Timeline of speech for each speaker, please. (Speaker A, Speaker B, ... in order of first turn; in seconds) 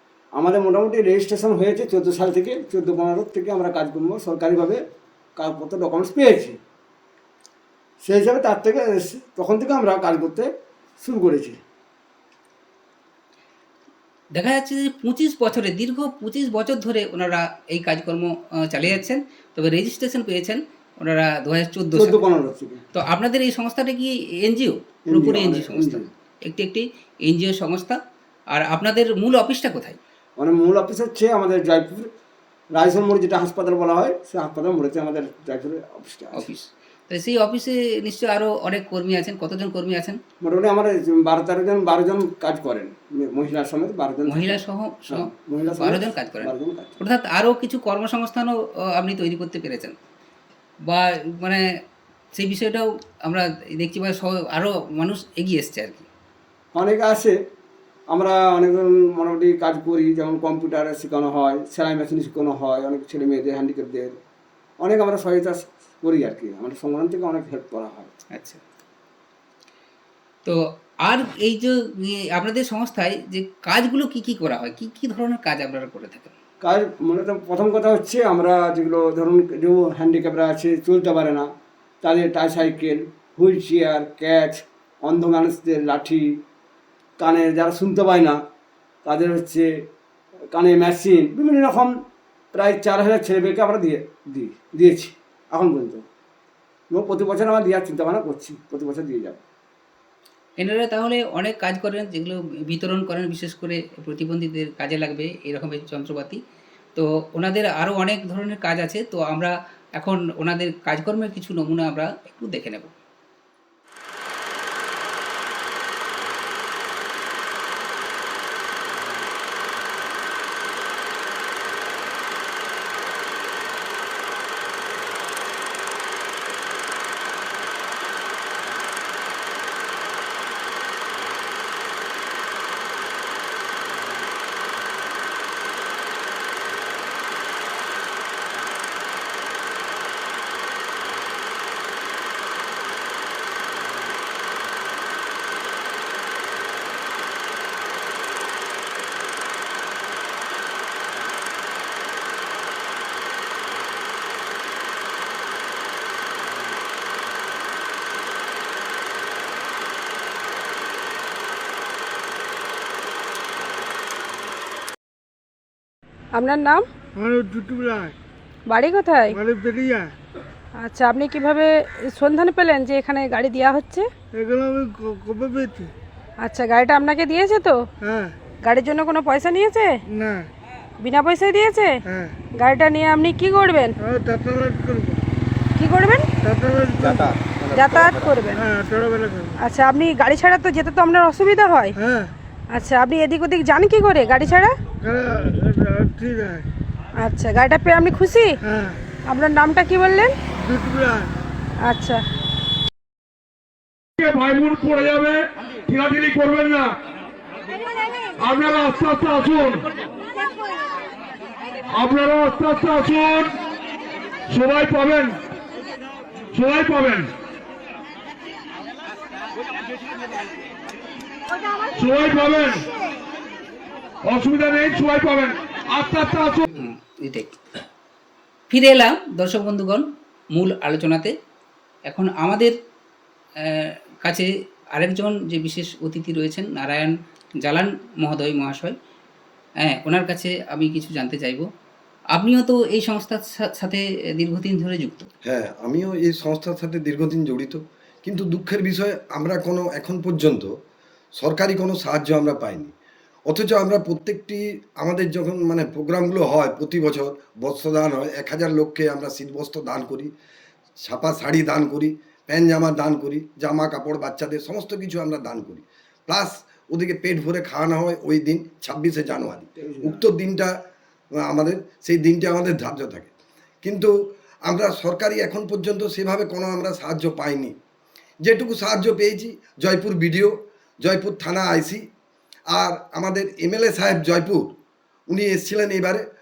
Speaker A: 0.3-4.8, 5.4-6.6, 8.0-10.5, 11.0-11.6, 21.9-22.9, 25.1-26.1, 30.4-32.1, 32.7-36.5, 40.4-44.6, 45.1-47.0, 56.8-57.4, 58.1-64.2, 64.8-68.2, 76.6-81.5, 82.0-86.4, 87.2-88.4, 89.0-89.8, 90.5-92.0, 92.5-96.0, 96.9-99.4, 269.8-270.2
Speaker B: 14.3-22.2, 22.9-28.0, 28.5-30.0, 36.4-40.2, 44.3-50.0, 50.9-51.7, 52.4-56.1, 68.3-68.6, 70.5-76.3, 100.6-106.4, 107.0-112.9, 226.8-227.6, 228.7-231.3, 232.1-232.7, 233.6-239.0, 239.8-241.7, 242.3-245.3
Speaker C: 166.3-166.9, 168.7-169.4, 170.8-174.1, 176.4-177.9, 178.7-180.0, 181.0-182.0, 182.6-183.9, 185.8-186.3, 187.7-188.6, 189.6-191.9, 192.7-194.8, 197.2-198.6, 199.3-200.3, 201.8-202.2
Speaker D: 167.2-168.2, 169.3-170.1, 174.3-175.9, 178.0-178.3, 180.1-180.5, 182.1-182.3, 184.0-185.2, 186.4-189.6, 192.0-192.3, 195.0-196.7, 198.6-199.0, 200.6-201.3
Speaker E: 204.2-206.9, 208.4-209.8, 211.9-213.5, 214.5-215.4, 216.5-217.3, 221.9-222.9, 224.2-226.7
Speaker F: 245.4-250.7, 251.4-252.9, 253.5-260.3, 261.0-270.7, 271.4-273.3, 273.8-274.1, 274.7-277.8, 278.4-282.0, 282.7-284.7, 285.3-286.2